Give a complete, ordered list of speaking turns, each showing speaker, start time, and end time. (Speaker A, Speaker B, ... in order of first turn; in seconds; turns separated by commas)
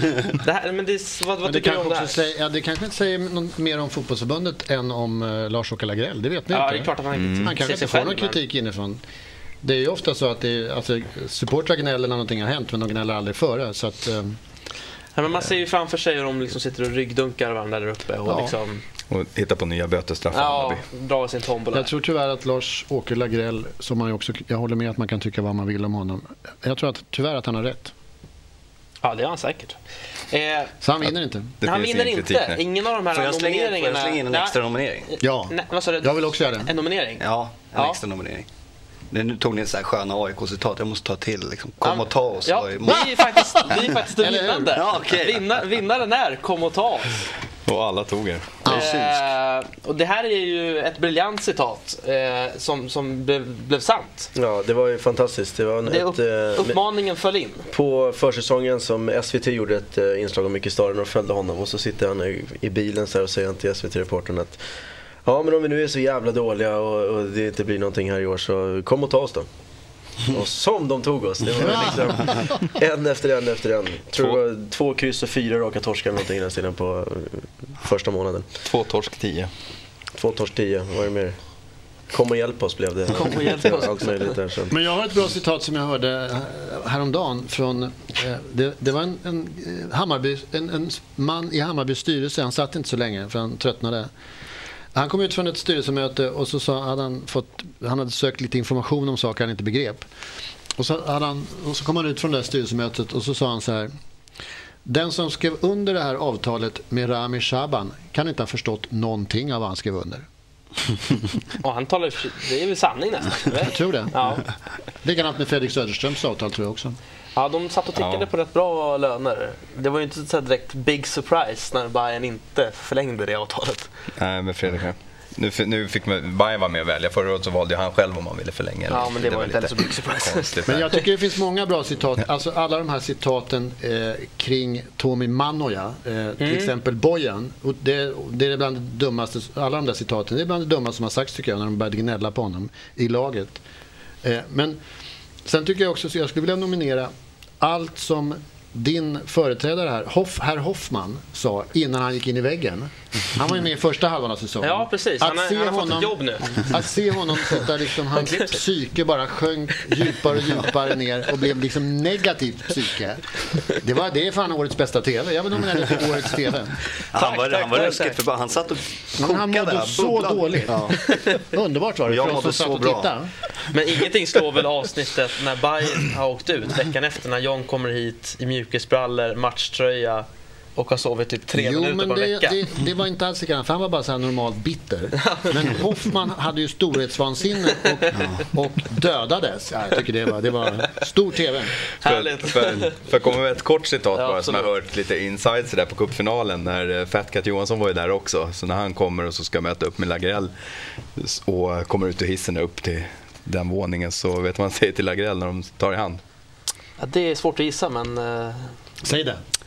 Speaker A: 0.4-2.2, Speaker B: 1.4-9.0, Speaker A: 6.5-8.4, Speaker C: 7.1-7.5, Speaker B: 9.6-14.4, Speaker A: 15.2-18.8, Speaker B: 18.2-18.6, Speaker C: 19.1-20.8, Speaker A: 20.3-21.9, Speaker B: 21.7-27.9, Speaker A: 29.0-29.8, Speaker A: 30.3-30.7, Speaker B: 30.8-31.6, Speaker C: 31.6-32.6, Speaker A: 31.6-34.6, Speaker D: 33.1-35.1, Speaker A: 35.1-37.2, Speaker B: 35.2-36.7, Speaker D: 37.2-38.5, Speaker A: 37.7-38.0, Speaker D: 39.1-43.1, Speaker A: 41.8-47.1, Speaker B: 43.1-44.8, Speaker D: 44.7-45.5, Speaker C: 47.7-48.6, Speaker B: 48.6-48.9, Speaker A: 48.6-54.3, Speaker D: 48.7-49.1, Speaker E: 54.3-56.8, Speaker A: 55.9-57.7, Speaker E: 57.7-64.6, Speaker E: 65.2-69.5, Speaker E: 70.3-78.5, Speaker C: 78.6-79.5, Speaker E: 80.1-81.3, Speaker E: 82.1-84.7, Speaker A: 83.1-84.3, Speaker B: 84.7-94.1, Speaker B: 94.9-100.0, Speaker B: 100.8-103.9, Speaker B: 104.8-110.2, Speaker A: 111.6-114.4, Speaker B: 113.6-114.3, Speaker B: 115.0-117.0, Speaker A: 117.3-123.9, Speaker C: 118.0-118.3, Speaker C: 124.2-130.9, Speaker A: 128.9-131.0, Speaker B: 130.7-143.6, Speaker A: 136.4-136.7, Speaker B: 144.2-144.8, Speaker B: 145.4-166.8, Speaker A: 154.6-156.7, Speaker D: 167.1-171.0, Speaker A: 167.1-168.2, Speaker B: 169.2-173.3, Speaker D: 172.1-173.1, Speaker A: 173.7-180.2, Speaker A: 180.8-182.6, Speaker B: 181.5-191.8, Speaker A: 185.2-185.5, Speaker D: 188.1-188.4, Speaker A: 192.0-193.0, Speaker C: 192.0-200.5, Speaker A: 194.1-194.7, Speaker C: 201.2-206.2, Speaker A: 207.0-208.7, Speaker B: 209.0-209.4